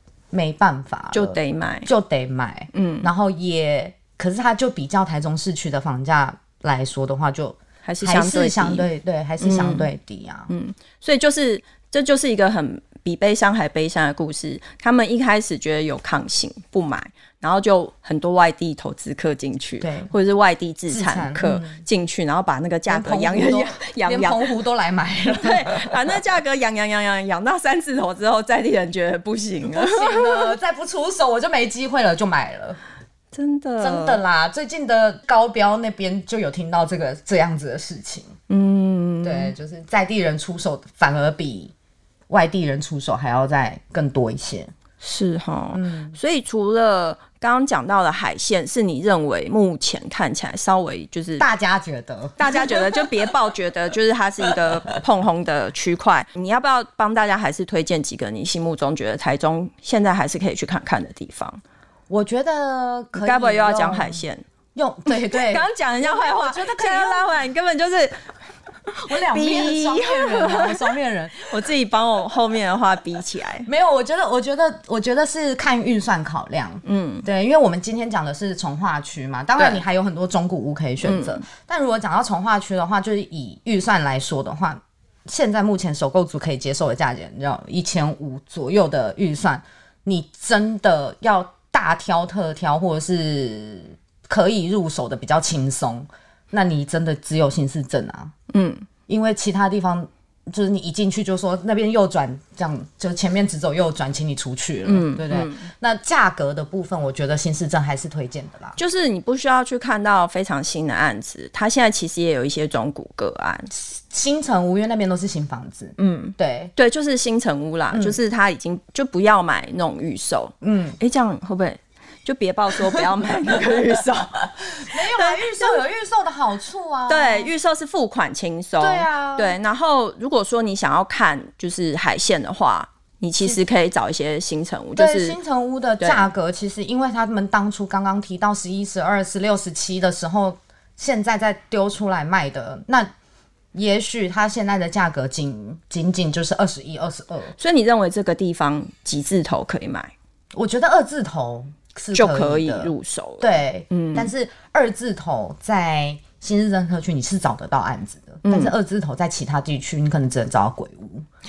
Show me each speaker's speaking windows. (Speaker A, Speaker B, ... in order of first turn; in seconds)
Speaker A: 0.3-10.5, 19.8-20.1, 20.9-21.8, 22.9-26.1, 29.7-32.8, 33.8-38.3, 39.2-41.7, 42.3-44.7, 45.7-46.2, 51.4-53.1, 62.1-64.2, 64.7-67.3, 69.1-71.5, 73.7-98.3, 99.1-108.8, 113.7-116.7, 117.9-118.2, 120.6-121.0, 124.8-127.5, 128.8-129.6, 134.9-143.1, 143.7-147.5, 150.5-161.2
Speaker B: 1.1-1.9, 2.7-3.1, 7.8-8.9, 9.4-9.9, 10.5-24.5, 25.3-30.5, 33.3-34.2, 38.5-39.5, 45.0-51.5, 52.4-61.6, 63.1-64.4, 65.3-68.2, 69.0-73.7, 76.8-77.2, 81.0-81.4, 98.5-98.9, 104.8-105.7, 108.8-113.7, 116.0-125.8, 127.1-135.4, 136.0-136.3, 147.6-150.1, 152.1-154.3, 158.4-158.7